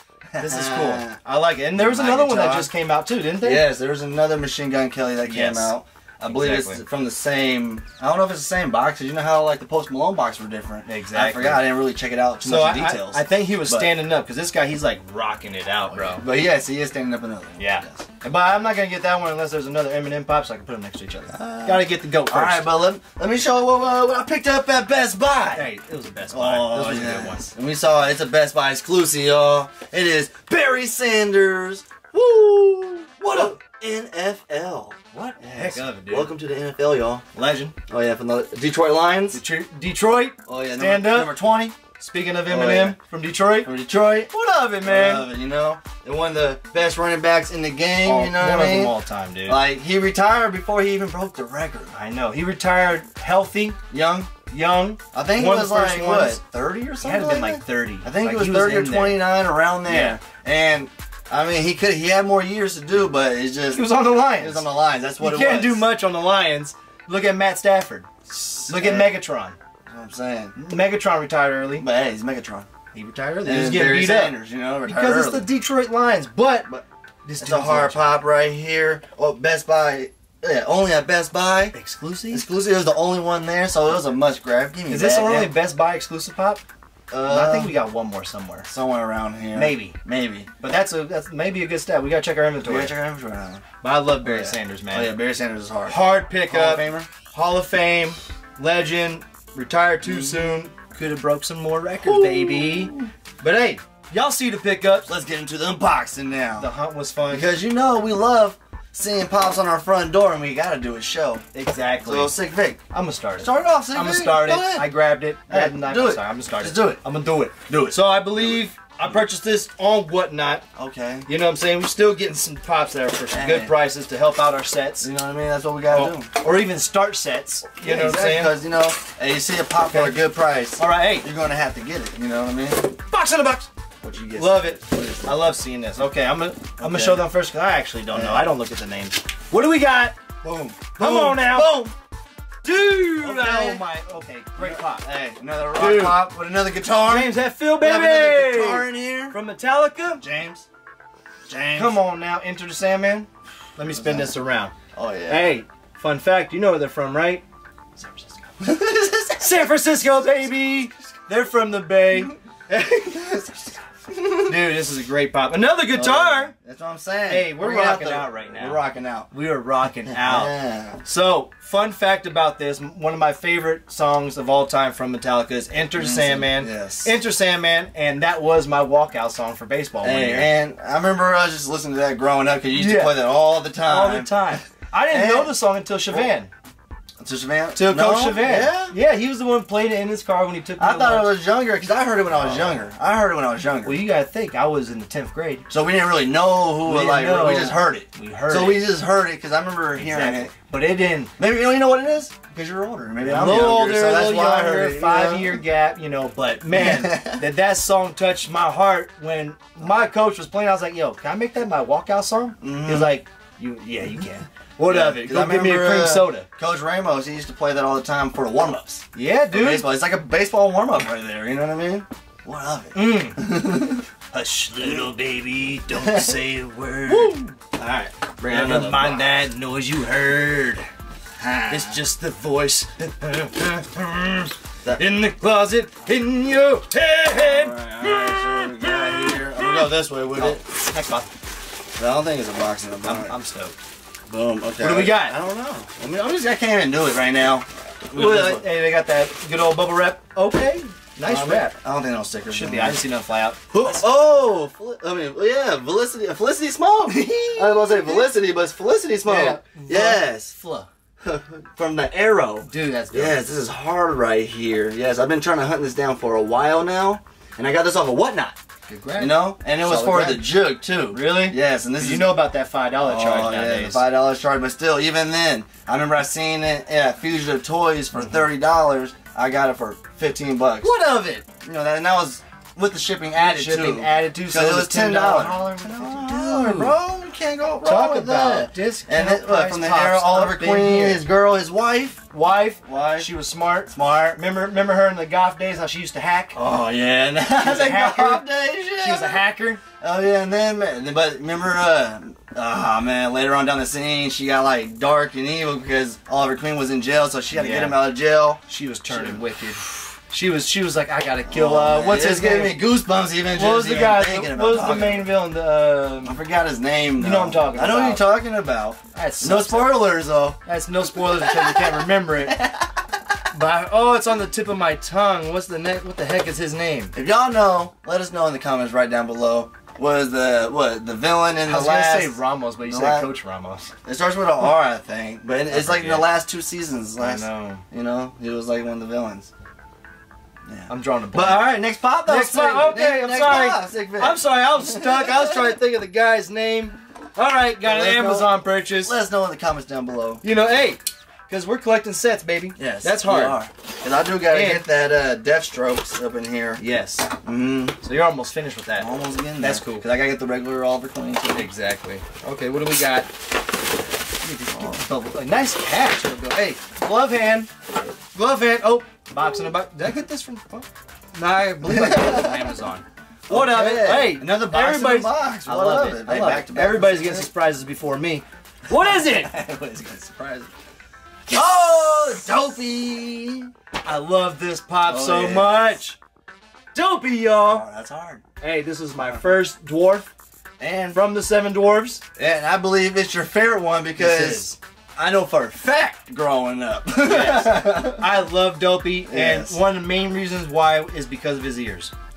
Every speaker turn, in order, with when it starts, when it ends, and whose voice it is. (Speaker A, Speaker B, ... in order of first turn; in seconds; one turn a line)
Speaker A: 0.3-1.2
Speaker B: 0.4-3.7
Speaker A: 1.8-2.7
Speaker A: 3.4-13.9
Speaker B: 5.2-6.8
Speaker B: 10.9-11.7
Speaker B: 12.4-16.2
Speaker A: 15.9-18.1
Speaker B: 17.6-22.7
Speaker A: 21.3-25.7
Speaker B: 25.5-27.5
Speaker A: 26.3-37.2
Speaker B: 33.3-33.6
Speaker B: 35.1-36.3
Speaker B: 37.3-37.8
Speaker A: 37.9-39.4
Speaker B: 39.3-41.4
Speaker A: 40.5-41.8
Speaker B: 41.9-43.7
Speaker A: 42.5-43.0
Speaker A: 43.6-44.3
Speaker B: 44.3-45.3
Speaker A: 44.8-48.9
Speaker B: 48.0-49.6
Speaker A: 49.5-52.0
Speaker B: 51.9-53.8
Speaker A: 53.9-54.3
Speaker B: 54.5-56.4
Speaker A: 55.1-65.8
Speaker B: 57.0-59.2
Speaker B: 59.9-60.2
Speaker B: 63.7-64.6
Speaker B: 65.2-68.1
Speaker A: 68.3-69.2
Speaker B: 68.7-69.6
Speaker A: 69.9-70.5
Speaker B: 70.5-71.9
Speaker A: 71.8-72.7
Speaker B: 72.9-76.7
Speaker A: 73.4-75.5
Speaker B: 77.3-78.1
Speaker A: 77.4-81.8
Speaker B: 81.7-82.5
Speaker A: 82.3-85.5
Speaker B: 84.9-86.6
Speaker A: 87.1-87.8
Speaker B: 87.3-88.7
Speaker A: 88.7-90.5
Speaker B: 89.5-90.0
Speaker B: 90.6-92.9
Speaker A: 92.6-93.6
Speaker B: 93.8-95.1
Speaker A: 94.2-97.1
Speaker B: 95.9-105.1
Speaker A: 100.0-100.6
Speaker A: 102.0-103.1
Speaker A: 105.1-106.7
Speaker B: 106.6-107.5
Speaker A: 107.3-111.5
Speaker B: 111.5-112.4
Speaker A: 112.0-112.8
Speaker B: 112.9-120.6
Speaker A: 113.4-114.9
Speaker A: 115.5-117.0
Speaker A: 117.7-118.6
Speaker A: 120.8-121.3
Speaker B: 121.3-125.1
Speaker A: 123.3-123.8
Speaker A: 125.0-126.3
Speaker B: 125.9-128.6
Speaker A: 127.8-133.0
Speaker B: 129.9-130.2
Speaker B: 130.8-131.3
Speaker B: 133.1-133.7
Speaker A: 134.0-135.4
Speaker B: 134.4-140.2
Speaker A: 136.8-137.3
Speaker A: 138.1-138.5
Speaker A: 140.4-141.9
Speaker B: 140.9-141.8
Speaker B: 142.6-145.1
Speaker A: 143.2-143.9
Speaker A: 144.6-149.4
Speaker B: 145.7-146.3
Speaker B: 147.1-150.2
Speaker A: 150.2-150.7
Speaker A: 151.5-152.0
Speaker B: 151.8-154.7
Speaker A: 153.9-154.3
Speaker A: 154.9-155.6
Speaker B: 155.3-157.4
Speaker B: 158.0-158.4
Speaker A: 158.6-159.7
Speaker B: 159.4-163.5
Speaker A: 163.1-164.6
Speaker B: 164.5-166.5
Speaker A: 165.9-169.3
Speaker B: 167.3-180.5
Speaker A: 170.1-171.0
Speaker A: 175.9-177.2
Speaker A: 180.0-185.5
Speaker B: 182.7-183.2
Speaker B: 183.8-186.5
Speaker A: 187.2-188.9
Speaker B: 187.8-191.3
Speaker A: 190.8-194.0
Speaker B: 192.3-192.8
Speaker B: 193.8-195.7
Speaker A: 195.7-200.5
Speaker B: 196.8-198.9
Speaker B: 200.0-201.3
Speaker A: 201.4-205.6
Speaker B: 203.2-216.5
Speaker A: 206.7-207.4
Speaker A: 212.6-213.1
Speaker A: 214.9-224.1
Speaker B: 219.1-219.9
Speaker B: 222.9-223.5
Speaker B: 224.3-230.9
Speaker A: 225.9-226.4
Speaker A: 227.1-229.4
Speaker A: 231.4-232.0
Speaker B: 231.7-241.3
Speaker A: 237.3-240.6
Speaker A: 242.0-243.3
Speaker B: 243.0-243.8
Speaker A: 244.3-248.7
Speaker B: 244.8-245.4
Speaker B: 248.1-251.8
Speaker A: 251.2-253.0
Speaker B: 252.5-254.1
Speaker A: 253.7-260.5
Speaker B: 257.2-258.3
Speaker B: 259.3-260.9
Speaker A: 261.2-268.6
Speaker B: 262.7-263.4
Speaker B: 268.9-270.5
Speaker A: 269.2-272.3
Speaker B: 271.1-274.0
Speaker A: 273.0-280.9
Speaker B: 278.2-278.5
Speaker B: 280.8-281.4
Speaker A: 281.6-292.2
Speaker B: 283.4-287.0
Speaker B: 287.8-291.2
Speaker B: 292.3-296.6
Speaker A: 292.8-293.3
Speaker A: 293.9-294.4
Speaker A: 296.6-299.4
Speaker B: 297.5-299.8
Speaker A: 300.0-309.4
Speaker B: 307.5-308.0
Speaker B: 308.7-312.8
Speaker A: 311.5-315.3
Speaker B: 313.5-316.4
Speaker A: 316.2-320.6
Speaker B: 317.2-318.3
Speaker B: 319.1-322.6
Speaker A: 321.2-322.8
Speaker B: 323.5-327.1
Speaker A: 327.1-333.3
Speaker B: 331.6-333.9
Speaker A: 334.1-339.5
Speaker B: 335.7-336.3
Speaker B: 337.2-337.8
Speaker A: 340.7-345.8
Speaker B: 340.9-349.1
Speaker A: 347.8-350.4
Speaker B: 350.4-353.6
Speaker A: 352.8-356.8
Speaker B: 354.5-354.9
Speaker B: 356.8-357.3
Speaker A: 357.4-358.0
Speaker B: 358.0-360.1
Speaker A: 359.0-361.7
Speaker B: 361.5-363.3
Speaker A: 364.4-365.0
Speaker B: 364.7-367.7
Speaker B: 368.3-379.5
Speaker A: 371.8-372.7
Speaker A: 373.5-377.5
Speaker A: 378.9-380.7
Speaker A: 381.5-383.7
Speaker B: 384.0-386.2
Speaker A: 385.1-386.0
Speaker B: 386.9-387.9
Speaker A: 387.6-388.4
Speaker B: 388.6-390.3
Speaker A: 389.2-389.5
Speaker A: 390.8-391.2
Speaker B: 391.1-392.2
Speaker A: 392.4-398.3
Speaker B: 394.2-394.8
Speaker B: 397.2-402.1
Speaker A: 399.2-399.8